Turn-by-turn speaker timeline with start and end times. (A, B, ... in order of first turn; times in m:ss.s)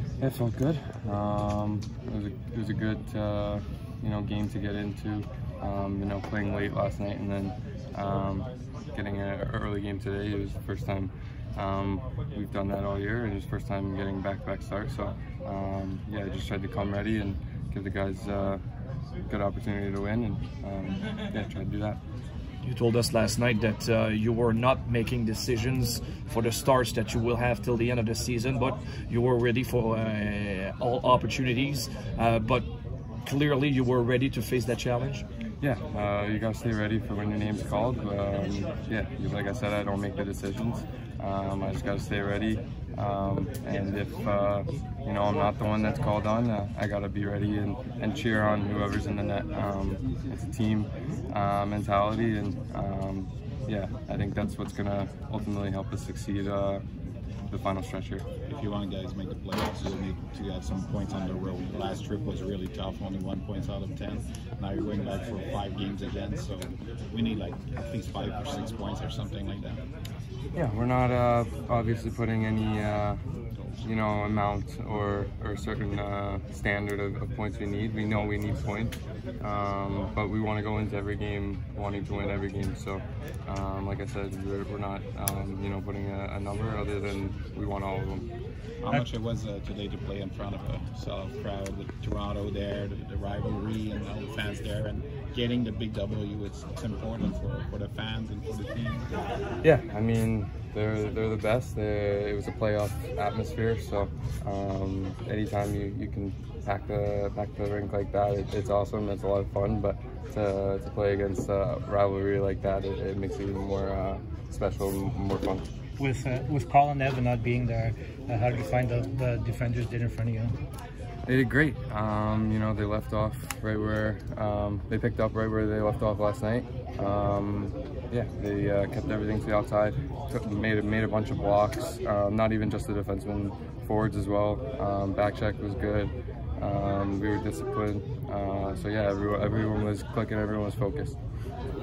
0:00.2-0:18.6 A
0:19.2-0:22.0 A
0:22.6-0:32.7 B
0:33.2-0:35.2 B
0:35.6-0:56.8 A
0:57.5-0:58.2 A
0:58.4-1:09.8 C
1:10.5-1:13.2 A
1:13.8-1:28.3 A
1:28.8-1:39.1 C
1:39.6-1:55.6 A
1:56.0-2:00.6 D
2:01.3-2:21.2 A